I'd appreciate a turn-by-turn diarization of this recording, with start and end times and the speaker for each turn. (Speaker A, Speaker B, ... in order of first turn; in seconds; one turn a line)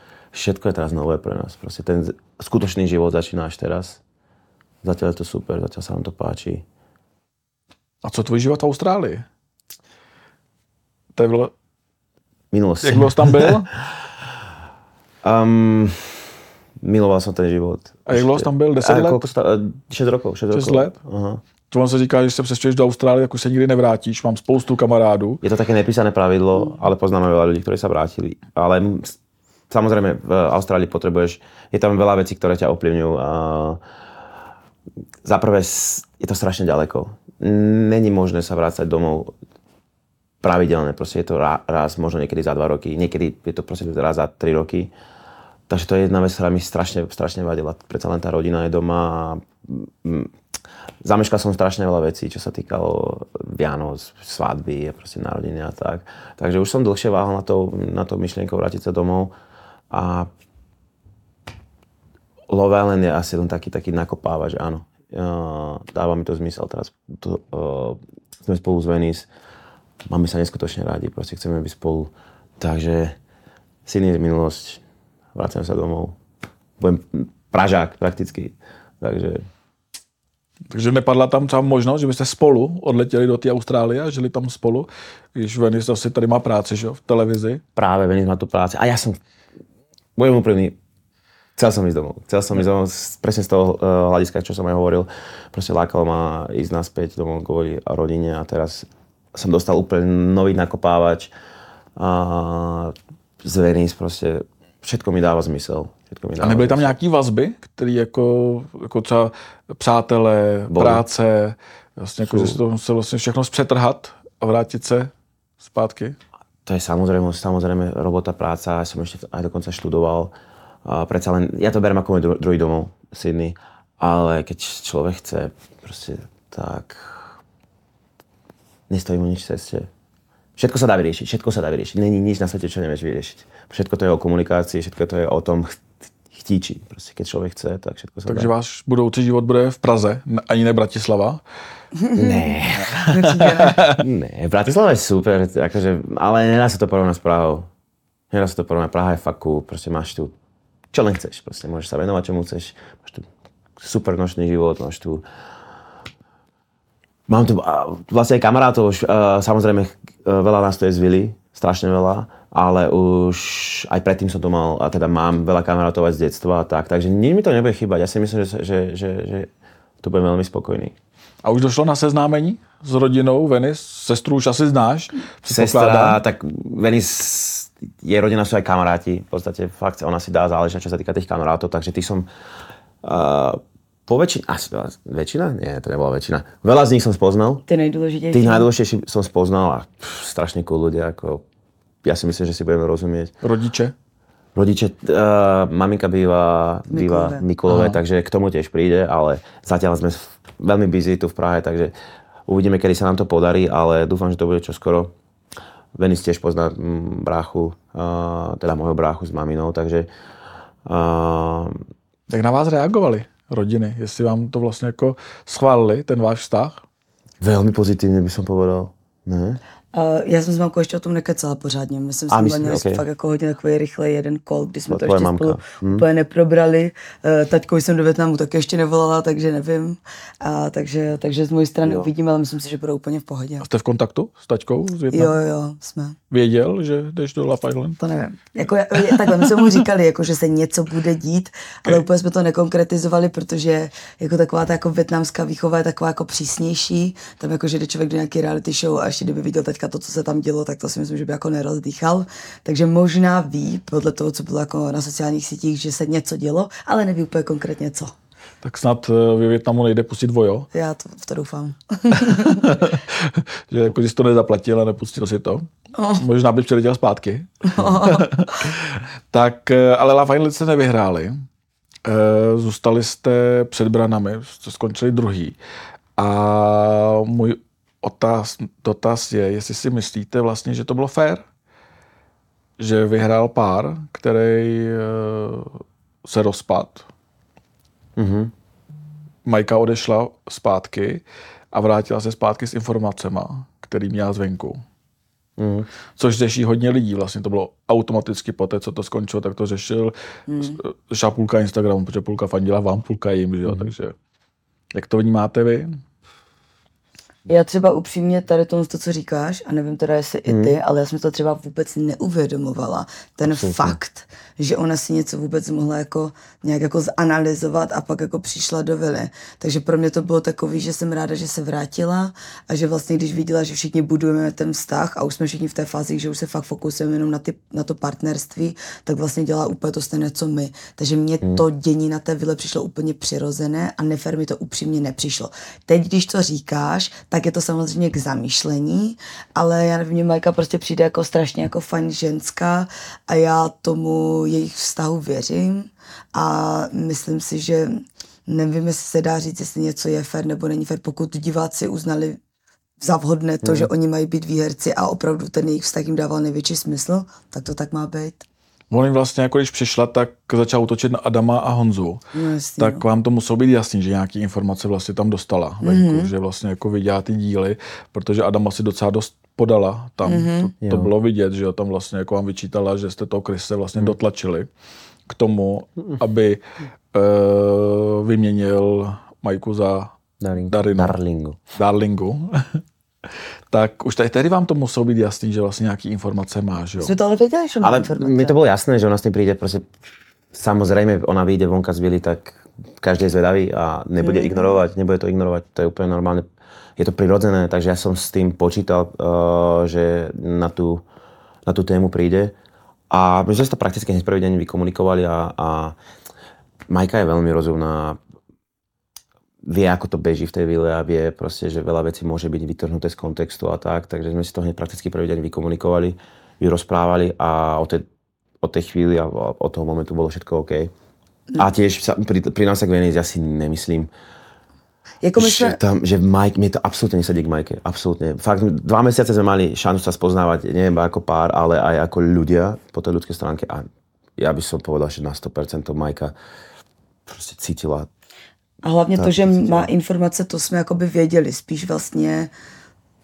Speaker A: 0.3-4.0
Speaker A: 4.8-6.6
Speaker B: 8.0-9.2
Speaker B: 11.2-11.5
Speaker A: 12.5-13.7
Speaker B: 12.8-13.7
Speaker A: 15.2-21.4
Speaker B: 18.1-19.2
Speaker B: 20.5-20.9
Speaker B: 21.7-25.4
Speaker A: 25.4-29.1
Speaker A: 29.7-33.8
Speaker A: 35.2-39.3
Speaker A: 40.4-44.9
Speaker A: 45.7-50.3
Speaker A: 51.0-59.3
Speaker A: 59.9-60.3
Speaker A: 62.5-69.3
Speaker A: 70.1-73.2
Speaker A: 73.8-74.8
Speaker A: 75.3-76.2
Speaker A: 76.8-79.4
Speaker B: 80.7-87.6
Speaker A: 87.8-89.2
Speaker A: 90.2-90.8
Speaker A: 91.5-101.3
Speaker A: 102.0-106.9
Speaker B: 106.4-116.2
Speaker A: 110.7-111.0
Speaker A: 112.3-112.6
Speaker A: 116.7-120.3
Speaker A: 120.8-127.4
Speaker A: 128.9-129.9
Speaker A: 130.6-138.5
Speaker B: 138.3-141.4
Speaker C: 142.0-142.3
Speaker A: 142.1-143.0
Speaker B: 142.8-144.0
Speaker C: 143.1-143.8
Speaker A: 143.8-147.7
Speaker A: 148.3-150.3
Speaker A: 150.9-155.2
Speaker A: 157.3-169.5
Speaker A: 170.0-170.9
Speaker B: 171.4-176.2
Speaker A: 175.5-182.3
Speaker A: 183.0-187.6
Speaker C: 187.7-188.7
Speaker A: 188.3-191.4
Speaker A: 192.0-193.3
Speaker B: 193.4-193.9
Speaker A: 194.5-201.9
Speaker C: 196.9-197.4
Speaker B: 197.7-198.0
Speaker A: 202.5-205.1
Speaker A: 205.9-210.1
Speaker A: 210.8-211.8
Speaker B: 212.3-216.8
Speaker A: 217.4-219.6
Speaker C: 219.9-233.7
Speaker A: 222.3-223.0
Speaker A: 224.9-226.0
Speaker B: 233.6-235.3
Speaker C: 235.1-236.2
Speaker B: 236.3-238.0
Speaker C: 238.0-258.1
Speaker B: 258.6-260.7
Speaker C: 260.7-262.8
Speaker B: 262.2-265.6
Speaker C: 266.0-266.2
Speaker B: 266.2-271.4
Speaker C: 267.7-268.6
Speaker B: 272.1-275.6
Speaker B: 276.2-281.4
Speaker B: 282.8-287.1
Speaker A: 288.2-288.5
Speaker B: 289.4-294.8
Speaker A: 295.6-295.9
Speaker B: 296.2-304.1
Speaker C: 300.5-300.8
Speaker A: 303.6-303.9
Speaker B: 304.9-306.0
Speaker C: 307.5-352.4
Speaker A: 310.5-310.7
Speaker A: 313.4-314.0
Speaker C: 353.0-358.4
Speaker A: 353.6-353.9
Speaker B: 358.9-362.2
Speaker C: 362.3-363.0
Speaker B: 362.8-374.7
Speaker C: 365.8-366.3
Speaker C: 370.2-370.7
Speaker A: 370.8-371.1
Speaker B: 375.3-376.6
Speaker B: 377.1-380.1
Speaker A: 380.4-381.6
Speaker B: 380.7-381.1
Speaker B: 381.8-382.8
Speaker B: 383.7-387.1
Speaker C: 387.0-388.5
Speaker A: 387.8-389.9
Speaker A: 390.5-396.4
Speaker C: 394.2-394.8
Speaker A: 397.0-401.0
Speaker A: 401.6-402.5
Speaker A: 403.1-405.9
Speaker A: 406.9-408.2
Speaker A: 409.6-418.1
Speaker A: 418.6-420.9
Speaker A: 421.6-424.1
Speaker C: 425.2-425.8
Speaker A: 425.4-433.9
Speaker A: 434.4-436.3
Speaker A: 437.3-438.1
Speaker C: 438.8-442.5
Speaker A: 439.2-439.9